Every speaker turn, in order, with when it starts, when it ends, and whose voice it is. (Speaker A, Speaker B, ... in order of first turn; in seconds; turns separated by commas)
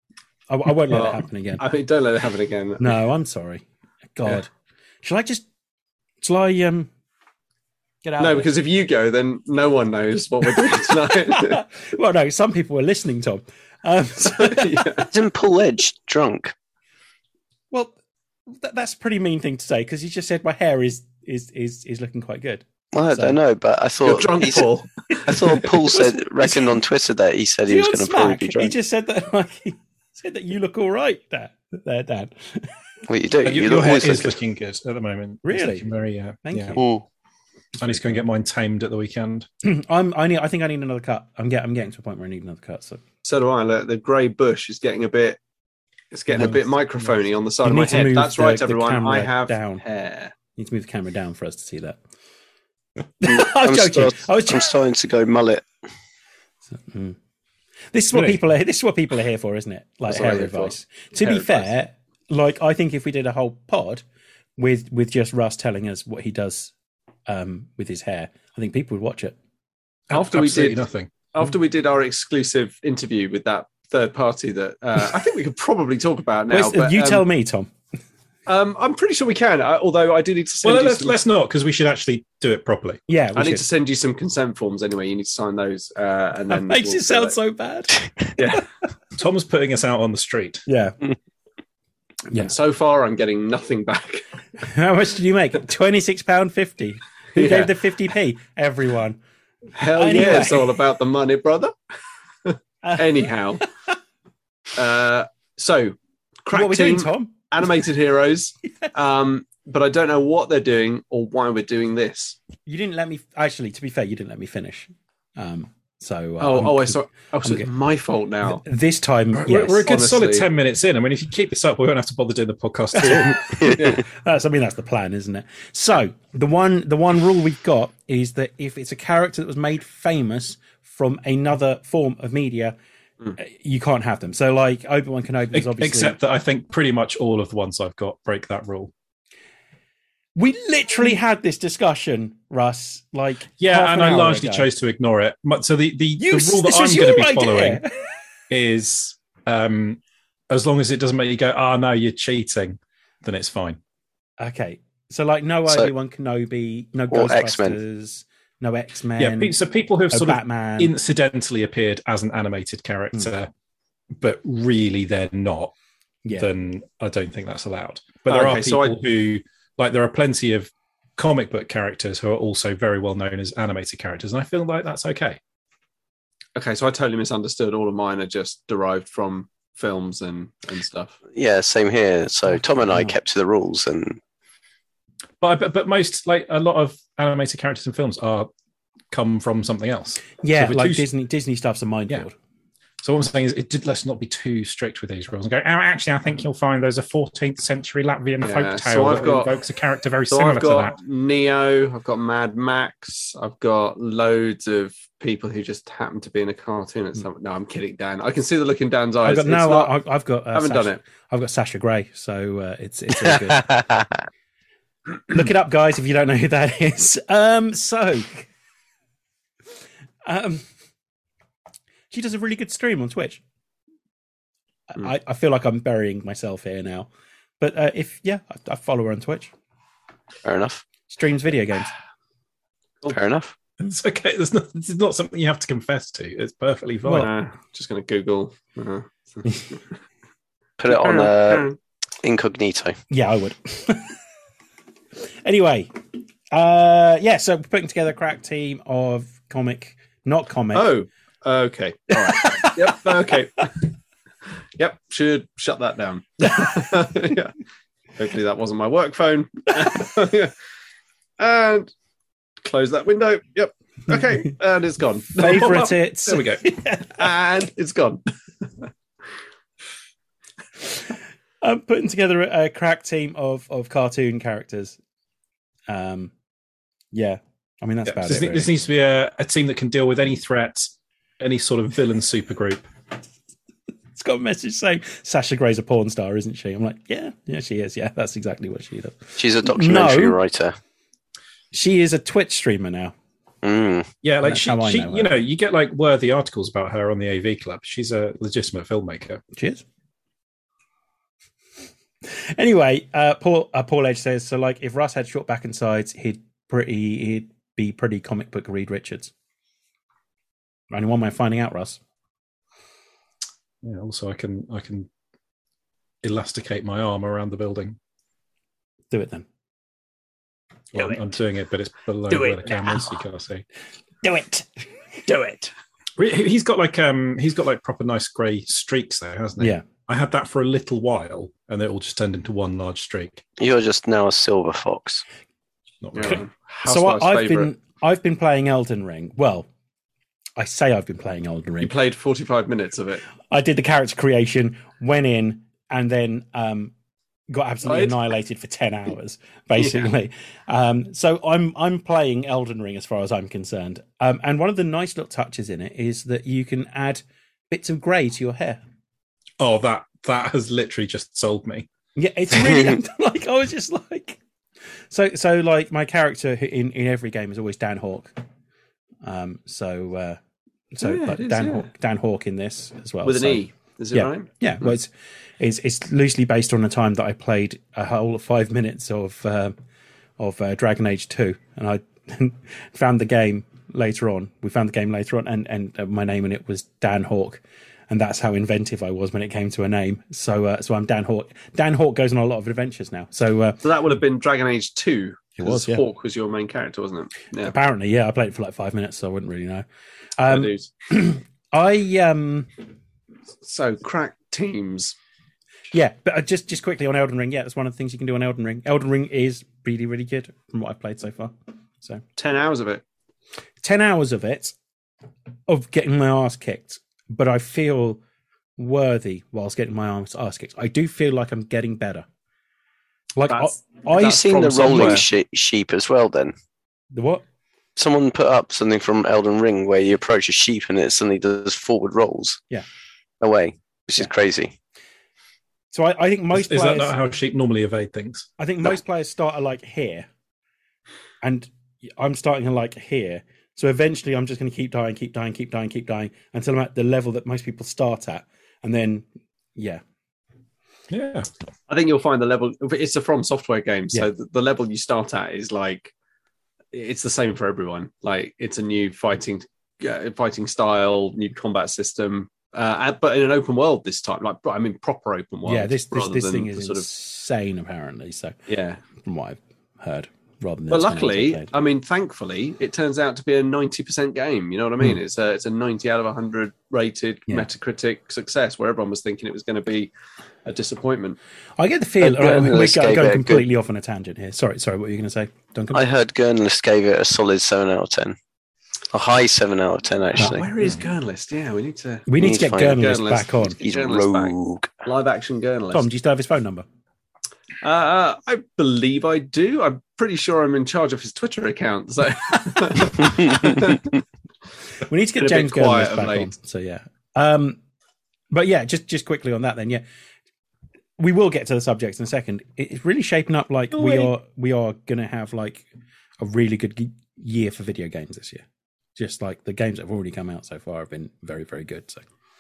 Speaker A: 0.5-1.7, Speaker B: 0.9-3.0, Speaker A: 2.8-3.6, Speaker A: 4.2-4.5, Speaker A: 5.0-5.4, Speaker A: 6.2-6.9, Speaker A: 8.0-8.5, Speaker B: 8.2-11.6, Speaker A: 11.3-15.1, Speaker B: 14.2-15.1, Speaker C: 15.1-16.5, Speaker A: 18.5-23.4, Speaker C: 22.9-24.7, Speaker B: 24.0-26.1, Speaker C: 25.2-28.7, Speaker A: 27.7-32.7, Speaker C: 33.1-34.3, Speaker D: 33.4-36.8, Speaker A: 35.4-35.9, Speaker A: 36.4-36.8, Speaker C: 36.8-37.0, Speaker D: 37.8-39.5, Speaker A: 37.8-38.2, Speaker A: 39.6-43.0, Speaker B: 43.2-45.4, Speaker B: 46.1-50.3, Speaker A: 47.6-49.8, Speaker A: 50.5-52.0, Speaker A: 53.2-54.7, Speaker C: 53.2-55.6, Speaker A: 56.7-57.2, Speaker A: 57.9-64.0, Speaker D: 58.1-58.4, Speaker B: 60.1-61.7, Speaker A: 64.6-66.7, Speaker A: 67.3-69.3, Speaker D: 70.1-71.1, Speaker B: 70.1-77.2, Speaker A: 76.5-77.7, Speaker B: 78.5-81.2, Speaker D: 80.6-83.0, Speaker A: 83.1-83.6, Speaker B: 83.3-87.3, Speaker A: 86.5-88.6, Speaker B: 88.3-88.7, Speaker D: 89.1-90.6, Speaker A: 90.7-91.0, Speaker B: 92.3-94.2, Speaker A: 94.6-99.2, Speaker B: 97.3-97.7, Speaker B: 99.8-101.7, Speaker A: 99.8-100.8, Speaker B: 102.4-103.7, Speaker A: 102.8-103.7, Speaker B: 104.7-112.4, Speaker A: 106.5-107.3, Speaker A: 112.7-117.7, Speaker B: 116.4-118.6, Speaker A: 118.5-119.9, Speaker D: 119.3-123.7, Speaker B: 119.9-120.5, Speaker A: 123.1-132.8, Speaker B: 123.7-124.0, Speaker A: 133.4-136.2, Speaker D: 135.5-138.9, Speaker A: 140.3-144.7, Speaker D: 143.6-147.8, Speaker A: 146.2-147.9, Speaker D: 148.5-150.0, Speaker D: 150.5-153.8, Speaker A: 154.4-159.6, Speaker C: 155.7-155.9, Speaker C: 157.1-157.8, Speaker D: 159.2-163.5, Speaker A: 160.1-160.9, Speaker D: 164.2-165.7, Speaker D: 166.4-175.4, Speaker B: 168.3-169.0, Speaker B: 176.5-181.2, Speaker C: 181.3-184.2, Speaker A: 182.9-183.1, Speaker D: 185.4-188.5, Speaker D: 189.1-191.1, Speaker A: 190.4-192.3, Speaker D: 193.0-200.9, Speaker B: 198.4-199.5, Speaker B: 200.3-209.9, Speaker A: 209.2-213.7, Speaker B: 210.5-211.0, Speaker C: 213.2-214.2, Speaker A: 215.3-218.5, Speaker A: 220.2-220.6, Speaker A: 222.1-223.4, Speaker A: 224.9-227.1, Speaker A: 227.6-229.5, Speaker C: 230.4-230.8, Speaker A: 231.1-231.9, Speaker C: 233.1-233.5, Speaker D: 233.8-237.3, Speaker A: 237.0-237.3, Speaker B: 237.2-239.8, Speaker C: 240.8-241.7, Speaker B: 240.9-241.8, Speaker C: 242.2-243.0, Speaker A: 243.1-244.2, Speaker A: 245.4-245.9, Speaker A: 246.5-250.9, Speaker B: 250.7-253.8, Speaker A: 252.1-252.8, Speaker B: 254.8-257.5, Speaker B: 258.2-260.5, Speaker B: 261.4-261.9, Speaker B: 262.6-265.7, Speaker D: 265.4-266.6, Speaker A: 265.4-267.3, Speaker B: 267.1-268.2, Speaker A: 271.6-275.0, Speaker A: 275.9-276.3, Speaker A: 277.1-278.7, Speaker D: 278.1-282.9, Speaker A: 284.1-290.4, Speaker C: 289.4-290.8, Speaker A: 291.7-293.1, Speaker C: 293.6-294.1, Speaker D: 294.2-299.4, Speaker A: 294.4-295.3, Speaker A: 299.5-299.8, Speaker A: 302.3-309.3, Speaker A: 310.9-312.0, Speaker D: 313.8-315.1, Speaker D: 316.2-318.0, Speaker A: 319.1-319.4, Speaker D: 320.9-323.6, Speaker A: 322.3-323.1, Speaker A: 324.2-325.7, Speaker D: 326.2-333.4, Speaker A: 329.6-329.8, Speaker C: 333.6-335.2, Speaker D: 336.0-336.4, Speaker B: 336.1-337.7, Speaker A: 336.3-339.7, Speaker A: 340.6-341.9, Speaker B: 341.8-343.2, Speaker A: 343.5-346.9, Speaker A: 347.5-358.8, Speaker B: 347.8-348.2, Speaker B: 349.8-350.1, Speaker D: 359.6-361.9, Speaker A: 362.1-364.4, Speaker A: 365.1-368.4, Speaker A: 369.2-370.4, Speaker A: 370.9-373.6, Speaker B: 371.0-371.9, Speaker B: 373.2-374.5, Speaker A: 374.1-379.8, Speaker A: 380.4-393.8, Speaker B: 393.8-397.7, Speaker A: 395.6-396.0, Speaker A: 397.6-399.8, Speaker A: 400.4-402.7, Speaker B: 400.5-400.9, Speaker B: 403.6-405.1, Speaker A: 405.9-412.2, Speaker B: 412.4-413.0, Speaker A: 413.8-414.7, Speaker A: 415.7-418.2, Speaker A: 418.8-422.2, Speaker A: 423.4-425.2, Speaker B: 423.5-425.2, Speaker C: 424.1-426.5, Speaker A: 427.1-427.4, Speaker C: 427.9-432.6, Speaker C: 433.4-434.7, Speaker A: 435.9-437.1, Speaker D: 436.5-438.5, Speaker A: 438.6-440.3, Speaker A: 441.4-449.2, Speaker A: 449.8-450.0, Speaker D: 451.1-451.5, Speaker B: 451.9-456.1, Speaker B: 456.9-467.1, Speaker A: 465.6-468.6, Speaker B: 468.7-469.0, Speaker A: 469.2-471.7, Speaker B: 470.9-480.1, Speaker B: 480.6-481.4, Speaker A: 481.8-486.1, Speaker C: 482.2-483.6, Speaker C: 485.9-488.4, Speaker C: 489.1-490.6, Speaker B: 490.4-492.3, Speaker A: 490.4-490.9, Speaker A: 492.3-493.8, Speaker C: 492.4-493.1, Speaker B: 492.8-496.0, Speaker C: 493.8-494.9, Speaker A: 495.9-496.8, Speaker B: 497.8-504.1, Speaker A: 505.1-507.8, Speaker B: 505.4-506.5, Speaker A: 508.5-510.0, Speaker A: 511.2-515.9, Speaker A: 516.4-518.6, Speaker A: 519.1-522.2